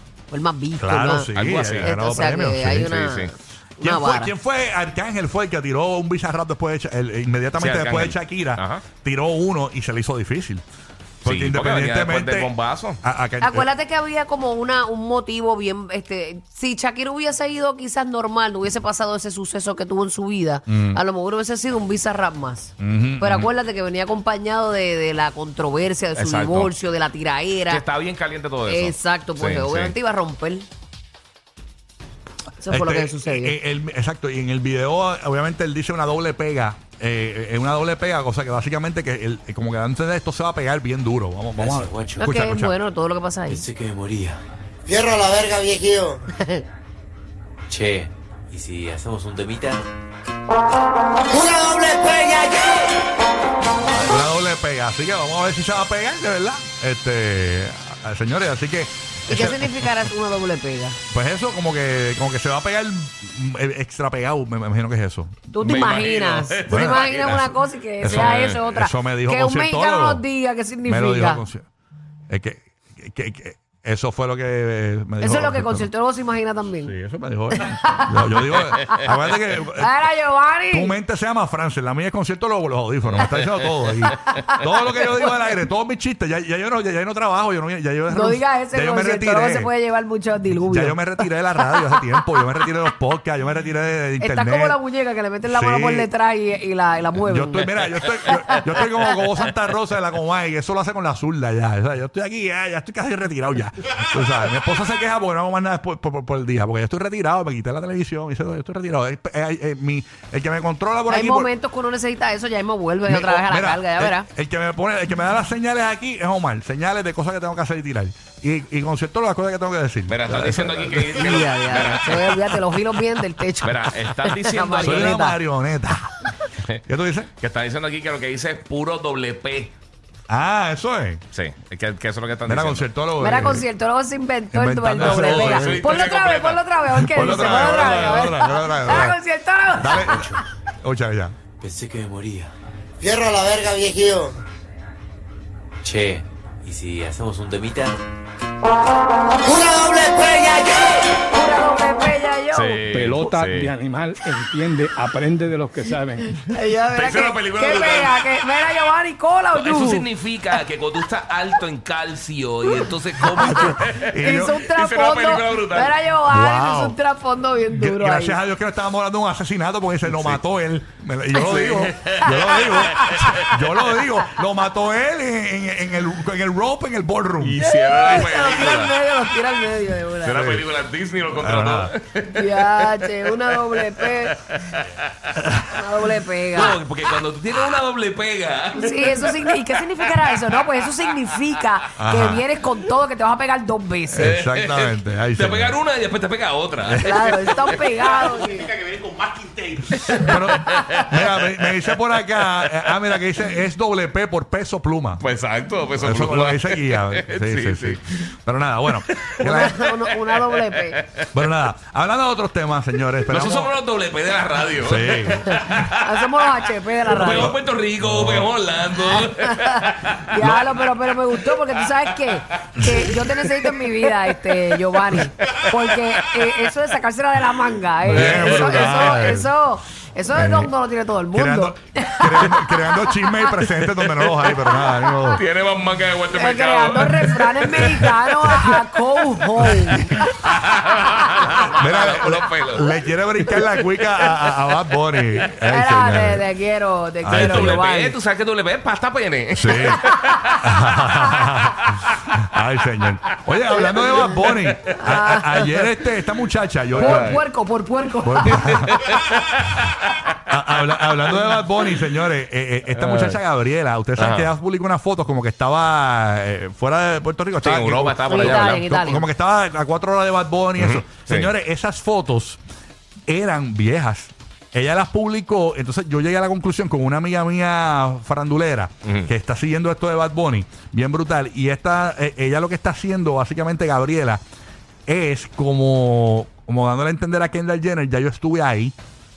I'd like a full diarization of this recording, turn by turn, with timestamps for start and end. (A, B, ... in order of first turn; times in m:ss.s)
0:00.3-0:04.3 A
0:00.8-0:03.0 B
0:01.3-0:01.9 C
0:02.9-0:03.3 C
0:03.8-0:10.6 B
0:07.6-0:08.8 C
0:11.2-0:13.0 C
0:11.2-0:13.7 B
0:13.4-0:27.8 A
0:20.7-0:21.0 B
0:22.8-0:23.5 B
0:26.2-0:26.7 C
0:27.7-0:29.9 C
0:28.7-0:30.7 A
0:32.6-0:33.6 A
0:32.7-0:42.7 B
0:41.6-0:42.3 D
0:42.2-0:43.6 A
0:43.5-0:44.4 D
0:44.9-0:46.2 E
0:47.7-0:49.8 D
0:51.3-0:52.9 E
0:53.8-0:59.7 B
0:59.3-1:01.0 A
1:01.1-1:06.1 B
1:05.5-1:11.4 A
1:05.6-1:07.5 C
1:06.7-1:10.2 B
1:08.0-1:08.6 C
1:10.8-1:11.6 B
1:12.3-1:15.9 B
1:15.2-1:16.9 A
1:16.8-1:19.9 B
1:17.6-1:19.0 A
1:19.6-1:20.9 A
1:20.7-1:29.7 B
1:23.0-1:23.9 C
1:24.0-1:25.3 A
1:28.1-1:32.6 A
1:30.6-1:34.8 B
1:34.2-1:38.8 A
1:35.5-1:36.1 B
1:37.2-1:51.5 B
1:51.1-1:54.3 A
1:53.0-2:01.4 B
2:00.1-2:02.6 C
2:01.1-2:05.4 A
2:03.6-2:05.2 C
2:04.8-2:06.3 B
2:06.9-2:07.3 B
2:07.4-2:09.7 C
2:10.3-2:11.2 B
2:11.3-2:12.9 C
2:12.5-2:13.7 B
2:13.2-2:20.4 A
2:14.5-2:15.9 B
2:15.0-2:17.8 C
2:16.9-2:19.2 B
2:19.7-2:21.3 B
2:21.6-2:22.5 D
2:23.0-2:24.4 E
2:25.8-2:28.0 D
2:29.4-2:31.0 E
2:31.3-2:32.8 A
2:32.5-2:33.7 C
2:32.9-2:36.3 F
2:36.3-2:40.1 A
2:36.9-2:38.1 C
2:39.5-2:46.0 C
2:43.3-2:44.7 B
2:44.2-2:48.4 A
2:46.3-2:47.0 B
2:47.7-2:57.6 B
2:50.0-2:50.4 C
2:51.4-2:53.5 C
2:52.3-2:53.5 A
2:57.4-2:58.9 C
2:57.6-3:00.5 A
3:00.2-3:02.9 C
3:00.3-3:00.6 B
3:01.3-3:01.9 B
3:02.3-3:04.4 A
3:03.4-3:05.4 C
3:05.7-3:06.8 A
3:06.5-3:10.7 C
3:08.7-3:14.4 A
3:12.0-3:12.4 B
3:14.2-3:15.8 B
3:14.2-3:19.3 C
3:16.8-3:17.4 B
3:17.0-3:18.7 A
3:19.9-3:21.8 C
3:20.2-3:25.2 B
3:22.6-3:23.4 C
3:25.2-3:28.0 C
3:26.0-3:29.8 B
3:28.9-3:29.8 C
3:29.4-3:31.0 A
3:30.3-3:31.2 C
3:31.3-3:33.7 B
3:33.3-3:40.8 C
3:34.8-3:35.7 B
3:35.3-3:37.6 A
3:37.3-3:38.5 B
3:39.1-3:53.6 A
3:42.8-3:43.1 B
3:48.0-3:49.5 B
3:48.1-3:49.1 C
3:50.3-3:50.7 B
3:51.3-3:55.4 B
3:54.7-3:55.4 A
3:55.3-3:58.1 C
3:56.3-4:00.2 A
3:57.7-3:58.0 B
3:59.6-4:02.9 C
3:59.6-4:00.3 B
4:01.7-4:06.4 B
4:05.7-4:08.2 A
4:07.2-4:07.8 B
4:07.3-4:12.4 C
4:09.5-4:10.0 B
4:10.6-4:17.4 B
4:13.9-4:15.0 C
4:13.9-4:14.3 A
4:15.0-4:15.8 A
4:16.9-4:17.4 C
4:17.0-4:19.0 A
4:18.2-4:18.9 B
4:18.4-4:20.1 C
4:20.5-4:32.6 B
4:21.8-4:22.1 C
4:22.9-4:23.4 C
4:24.2-4:24.5 C
4:27.6-4:28.8 C
4:28.3-4:29.3 A
4:30.8-4:31.5 C
4:33.3-4:44.4 B
4:39.0-4:39.3 C
4:45.1-4:48.9 B